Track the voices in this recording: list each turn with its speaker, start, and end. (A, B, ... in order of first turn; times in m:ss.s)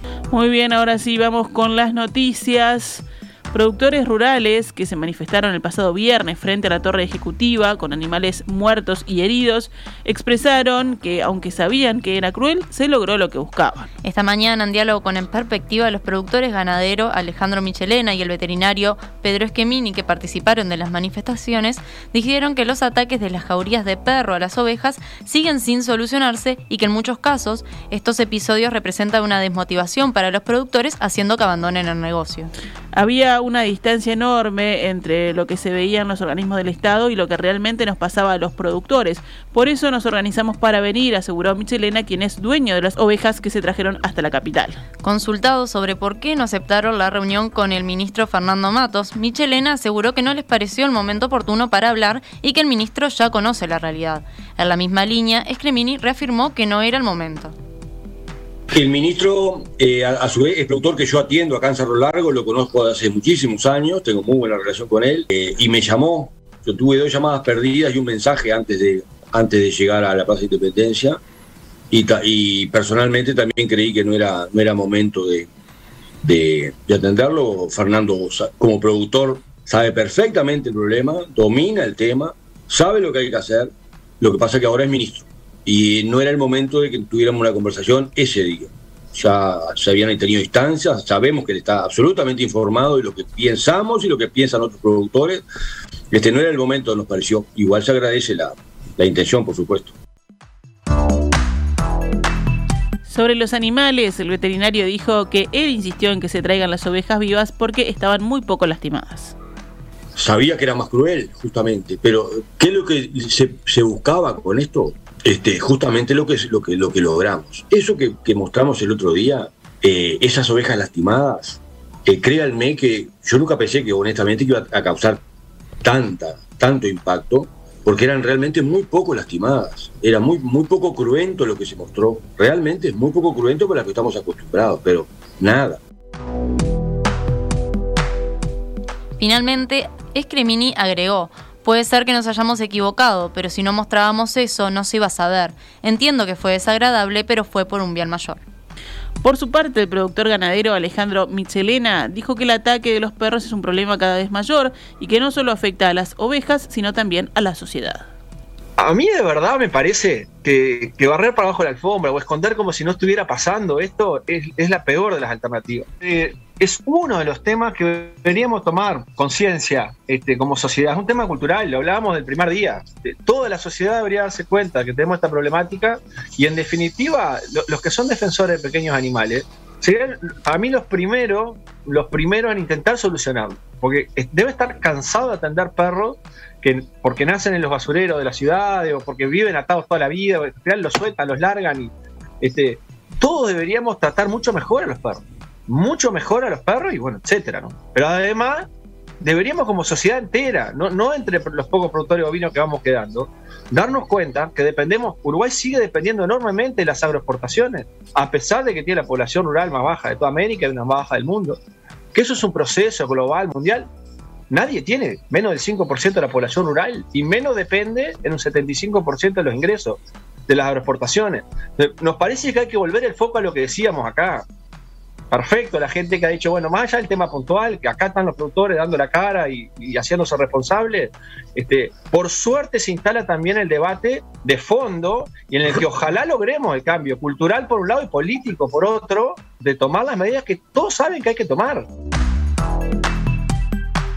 0:00.3-0:13.9 A
0:14.0-0:32.5 B
0:32.9-0:44.8 A
0:45.0-0:57.5 B
0:58.7-1:11.2 C
1:11.9-1:15.5 C
1:16.2-1:35.4 C
1:36.1-1:39.9 C
1:43.1-1:49.4 A
1:50.1-2:05.2 C
2:05.8-2:15.8 C
2:19.2-2:28.4 B
2:29.2-2:38.1 A
2:38.8-3:18.7 D
3:19.2-3:31.6 D
3:32.1-3:33.9 D
3:34.5-3:44.4 D
3:45.3-4:01.9 D